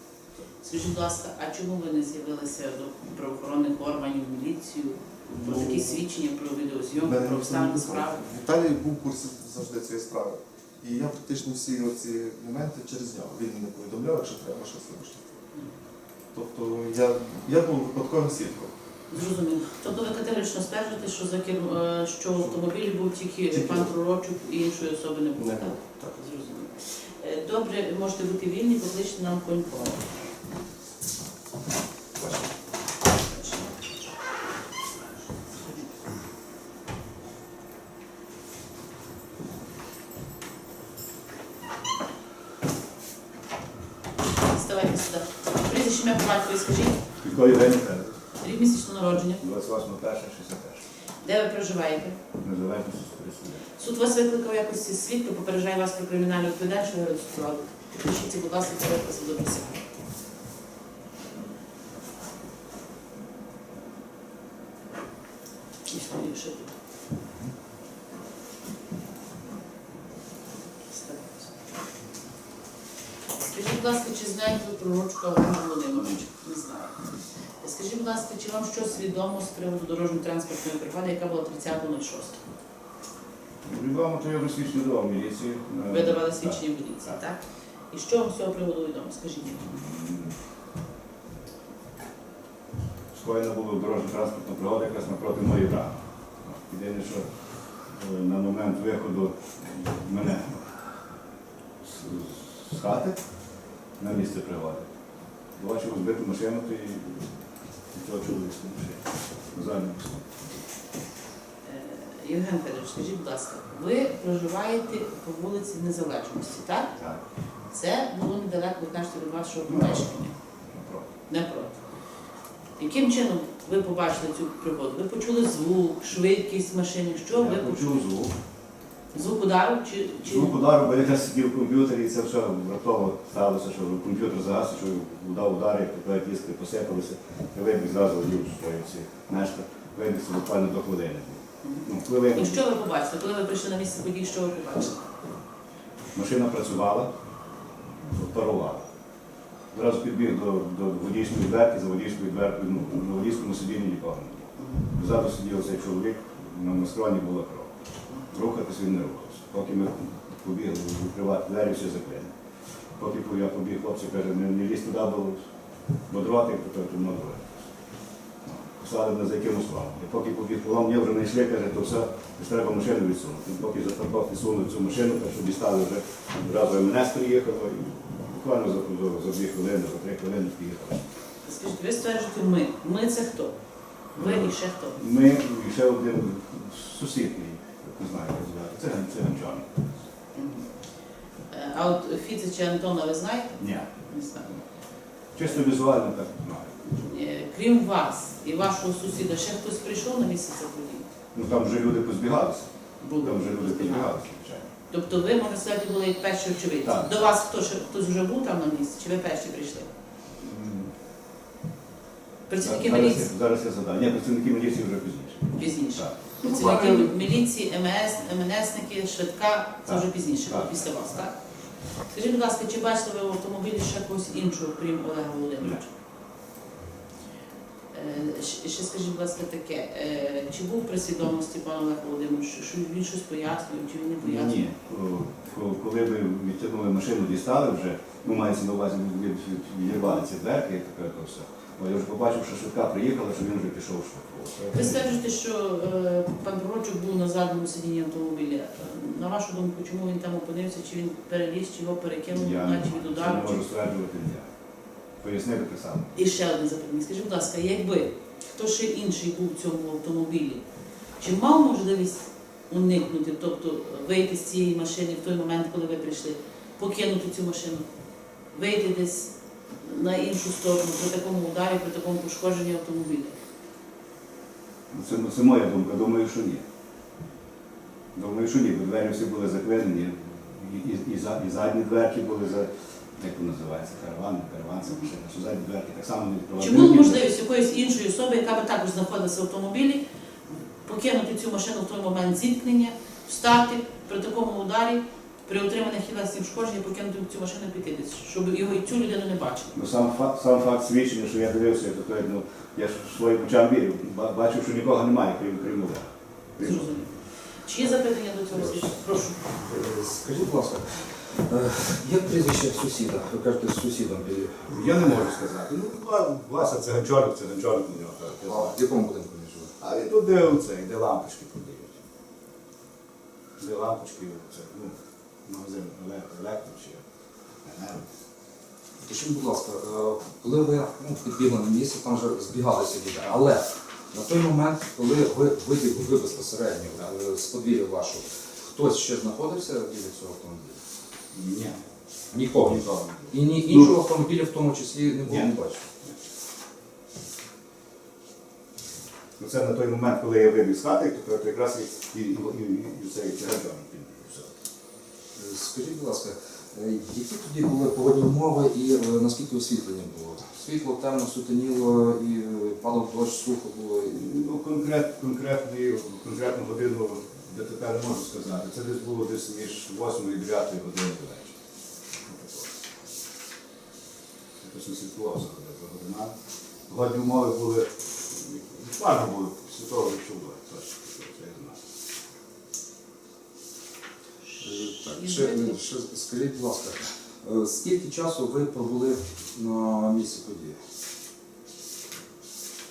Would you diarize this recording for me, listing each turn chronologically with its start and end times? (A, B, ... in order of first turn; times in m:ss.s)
0:00.6-0:08.2 A
0:05.3-0:06.0 B
0:07.0-0:15.4 B
0:16.3-0:18.7 B
0:19.1-0:30.0 A
0:23.5-0:23.9 B
0:25.4-0:26.2 B
0:33.3-0:33.7 A
0:44.4-0:47.0 A
0:47.2-0:48.2 C
0:48.4-0:49.4 A
0:49.4-0:50.8 C
0:51.2-0:52.2 A
0:52.4-0:53.6 C
0:53.8-0:59.8 A
1:05.9-1:06.8 A
1:10.9-1:11.5 A
1:13.4-1:17.0 A
1:17.6-1:22.4 A
1:23.6-1:27.2 C
1:25.9-1:27.4 A
1:27.9-1:29.7 A
1:29.7-1:30.3 C
1:33.1-1:40.8 C
1:41.8-1:43.2 C
1:44.0-1:44.9 C
1:45.6-1:47.3 C
1:47.9-1:50.2 C
1:51.6-1:57.0 A
1:57.7-2:00.3 A
1:59.7-2:00.0 C
2:00.7-2:01.1 C
2:01.3-2:01.8 A
2:02.8-2:08.1 A
2:07.3-2:08.3 C
2:09.1-2:10.6 A
2:10.2-2:22.6 C
2:21.6-2:25.1 A
2:26.1-2:27.1 C
2:28.0-2:28.9 C
2:29.7-2:37.7 C
2:38.2-2:42.3 C
2:42.9-2:45.5 C
2:46.1-2:47.7 C
2:48.4-3:01.0 C
3:01.4-3:03.6 A
3:04.1-3:05.0 A
3:04.2-3:09.9 C
3:10.4-3:10.7 A
3:11.5-3:14.5 A
3:13.6-3:13.9 C
3:15.3-3:17.0 C
3:17.0-3:21.1 A
3:21.3-3:24.7 C
3:23.0-3:24.1 A
3:24.9-3:29.9 A
3:26.8-3:27.2 C
3:30.4-3:30.9 C
3:32.5-3:33.3 A
3:32.6-3:36.9 C
3:35.6-3:41.4 A
3:39.9-3:40.9 C
3:42.1-3:45.9 A
3:47.9-3:54.7 A
3:54.2-4:05.1 C
4:04.7-4:13.6 A
4:12.3-4:14.5 C
4:15.2-4:16.2 C
4:16.2-4:20.6 A
4:21.2-4:27.9 A
4:28.5-4:33.4 A
4:34.9-4:36.6 C
4:38.2-4:47.2 C
4:46.6-4:50.0 A
4:50.8-4:59.8 A
4:59.7-5:06.8 C
5:06.6-5:09.4 A
5:09.5-5:15.0 D
5:14.7-5:18.8 C
5:18.4-5:19.7 D
5:19.8-5:21.9 C
5:23.6-5:27.0 C
5:27.6-5:28.1 C
5:29.0-5:40.8 D
5:41.3-5:41.8 C
5:42.3-5:45.9 D
5:42.5-5:44.0 C
5:45.3-5:46.2 C
5:49.4-5:54.5 C
5:55.4-6:04.2 D
6:04.2-6:11.6 C
6:12.2-6:12.8 C
6:14.6-6:16.3 C
6:16.9-6:21.8 C
6:24.5-6:25.8 A
6:24.6-6:30.8 D